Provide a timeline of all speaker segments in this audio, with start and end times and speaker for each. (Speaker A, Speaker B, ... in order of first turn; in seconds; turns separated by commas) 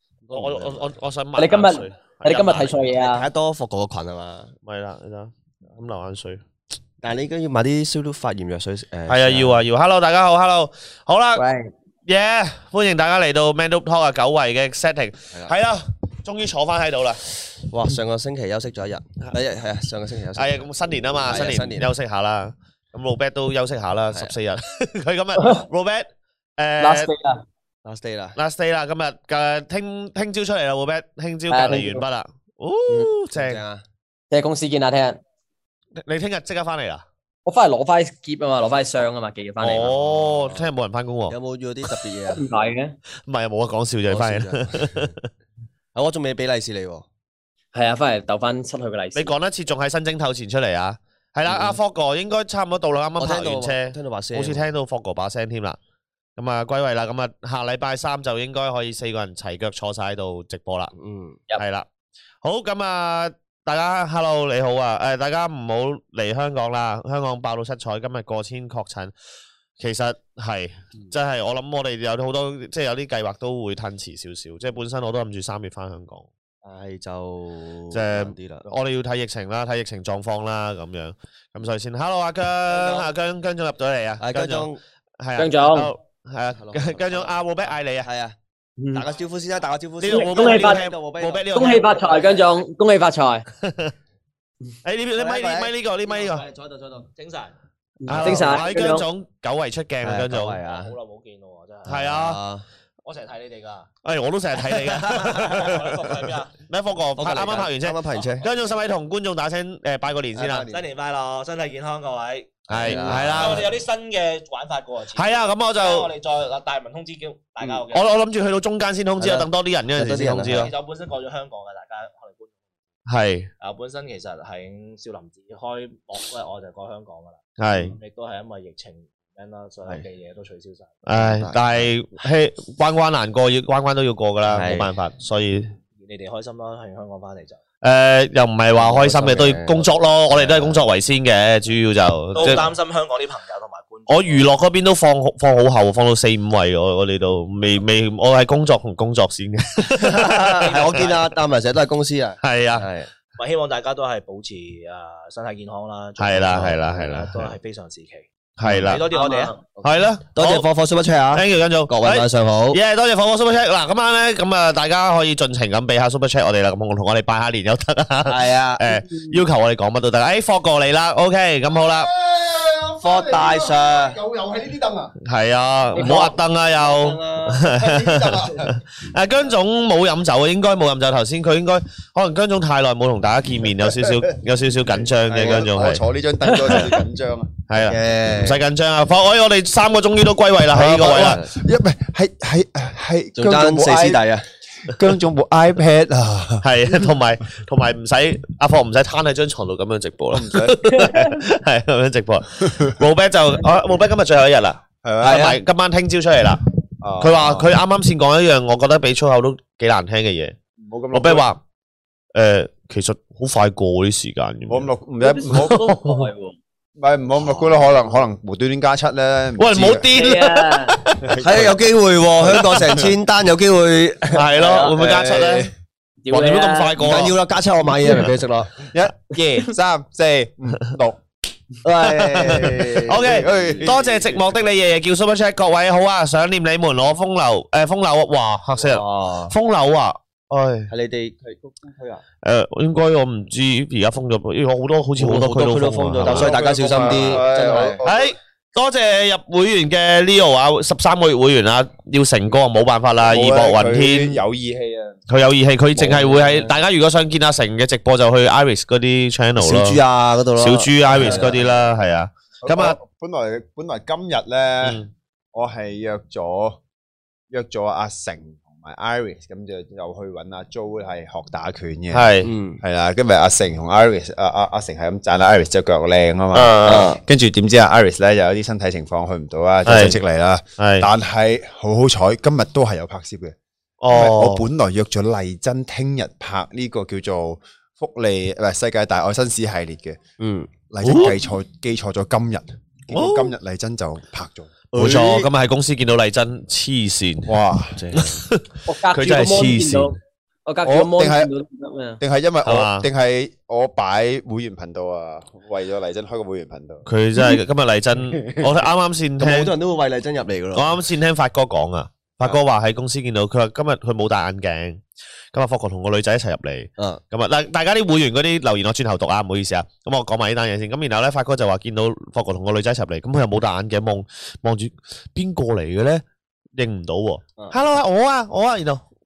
Speaker A: 0.2-0.8, Speaker B: 0.3-2.7, Speaker C: 1.4-3.2, Speaker A: 2.2-4.5, Speaker B: 4.7-6.4, Speaker A: 7.0-9.6, Speaker B: 9.1-11.4, Speaker C: 11.3-11.7, Speaker B: 12.1-17.2, Speaker A: 17.7-20.6, Speaker B: 20.4-26.1, Speaker A: 21.2-21.9, Speaker B: 26.6-27.1, Speaker C: 26.8-27.4, Speaker A: 27.8-28.4, Speaker B: 28.4-33.6, Speaker C: 31.5-32.0, Speaker A: 33.3-33.8, Speaker C: 34.3-35.2, Speaker B: 36.0-37.0, Speaker C: 37.4-39.9, Speaker B: 39.6-41.4, Speaker A: 40.0-40.6, Speaker A: 41.3-42.4, Speaker C: 42.3-42.9, Speaker B: 43.3-45.2, Speaker A: 44.1-45.1, Speaker A: 45.9-47.0, Speaker C: 47.7-49.3, Speaker B: 49.1-55.8, Speaker A: 51.5-51.8, Speaker A: 53.2-54.6, Speaker B: 56.4-60.9, Speaker A: 60.9-61.4, Speaker B: 61.6-61.9, Speaker B: 62.4-69.1, Speaker B: 69.8-76.3, Speaker A: 76.6-78.7, Speaker B: 77.9-84.7, Speaker A: 82.7-83.1, Speaker A: 84.2-84.8, Speaker B: 85.2-88.1, Speaker C: 85.4-85.9, Speaker A: 86.5-87.3, Speaker A: 88.0-88.3, Speaker C: 88.8-89.0, Speaker A: 88.9-92.2, Speaker B: 90.0-92.0, Speaker C: 90.0-90.8, Speaker C: 91.5-93.5, Speaker B: 93.6-93.9, Speaker B: 94.8-96.4, Speaker A: 95.2-97.1, Speaker D: 97.1-97.5, Speaker C: 98.0-99.1, Speaker A: 98.1-98.6, Speaker B: 98.1-100.6, Speaker A: 100.0-100.9, Speaker D: 100.6-102.1, Speaker B: 101.8-102.4, Speaker A: 102.0-102.6, Speaker D: 103.0-103.9, Speaker B: 104.0-105.9, Speaker A: 104.8-105.0, Speaker D: 105.2-106.5, Speaker B: 106.7-110.7, Speaker A: 107.2-108.4, Speaker A: 110.3-110.8, Speaker D: 110.7-118.1, Speaker A: 112.7-113.7, Speaker B: 112.7-113.7, Speaker B: 115.1-116.1, Speaker B: 117.9-120.7, Speaker A: 119.2-120.7, Speaker D: 120.5-122.5, Speaker B: 123.1-123.5, Speaker D: 123.6-131.0, Speaker B: 127.6-127.9, Speaker B: 131.0-135.7, Speaker A: 131.2-131.9, Speaker A: 134.5-134.9, Speaker D: 136.0-137.6, Speaker B: 137.8-142.7, Speaker A: 138.7-140.8, Speaker D: 142.3-144.5, Speaker B: 144.1-151.1, Speaker A: 149.9-153.1, Speaker D: 150.6-151.2, Speaker B: 152.4-152.8, Speaker D: 153.4-159.6, Speaker B: 156.2-157.5, Speaker A: 156.5-156.8, Speaker B: 158.6-159.1, Speaker A: 158.7-162.8, Speaker B: 159.8-160.7, Speaker B: 161.3-172.1, Speaker A: 168.2-169.0, Speaker E: 171.8-175.1, Speaker A: 173.0-174.2, Speaker B: 175.2-186.0, Speaker A: 175.9-177.7, Speaker C: 175.9-176.3, Speaker E: 177.7-178.7, Speaker E: 185.2-187.5, Speaker A: 185.4-185.6, Speaker B: 187.7-191.4, Speaker A: 187.8-188.6, Speaker E: 190.7-194.2, Speaker A: 191.1-191.5, Speaker A: 193.4-194.4, Speaker E: 194.9-196.7, Speaker B: 196.6-206.6, Speaker E: 200.3-200.8, Speaker C: 200.8-201.4, Speaker E: 205.0-205.5, Speaker A: 205.2-205.6, Speaker E: 207.0-207.7, Speaker B: 207.2-210.5, Speaker E: 210.8-211.5, Speaker B: 211.1-211.6, Speaker B: 212.3-214.9, Speaker E: 214.7-215.9, Speaker C: 215.2-216.5, Speaker B: 215.5-216.3, Speaker E: 217.0-220.1, Speaker A: 217.4-217.8, Speaker B: 219.6-221.3, Speaker C: 220.1-221.0, Speaker E: 221.2-221.8, Speaker A: 221.4-225.7, Speaker E: 222.5-223.0, Speaker B: 224.3-225.7, Speaker C: 226.2-226.9, Speaker B: 226.3-227.3, Speaker A: 226.9-228.8, Speaker E: 228.9-231.2, Speaker A: 231.8-234.0, Speaker B: 232.0-240.9, Speaker E: 233.2-234.2, Speaker A: 238.8-239.5, Speaker A: 240.9-242.2, Speaker B: 242.4-247.4, Speaker A: 245.2-248.0, Speaker E: 246.2-248.3, Speaker B: 248.0-254.4, Speaker E: 253.2-255.2, Speaker B: 255.3-260.0, Speaker A: 256.0-256.7, Speaker A: 259.6-261.6, Speaker B: 260.6-263.0, Speaker E: 261.1-261.7, Speaker E: 262.6-265.0, Speaker B: 264.8-265.1, Speaker E: 265.5-266.8, Speaker E: 267.5-283.5, Speaker B: 272.1-272.5, Speaker A: 272.4-272.8, Speaker B: 276.5-277.1, Speaker A: 276.8-277.2, Speaker B: 279.9-280.2, Speaker B: 280.8-281.1, Speaker B: 284.0-284.6, Speaker E: 284.1-290.2, Speaker A: 290.4-290.7, Speaker E: 290.9-294.7, Speaker B: 291.0-291.4, Speaker B: 293.1-293.5, Speaker A: 294.9-295.5, Speaker B: 294.9-297.5, Speaker E: 297.4-298.0, Speaker A: 297.9-298.4, Speaker B: 298.1-300.0, Speaker C: 298.9-302.2, Speaker A: 299.5-299.8, Speaker E: 300.8-301.5, Speaker E: 302.2-307.1, Speaker B: 302.6-303.1, Speaker B: 307.1-309.7, Speaker A: 309.4-311.0, Speaker B: 310.7-315.0, Speaker B: 315.5-326.2, Speaker B: 326.7-329.0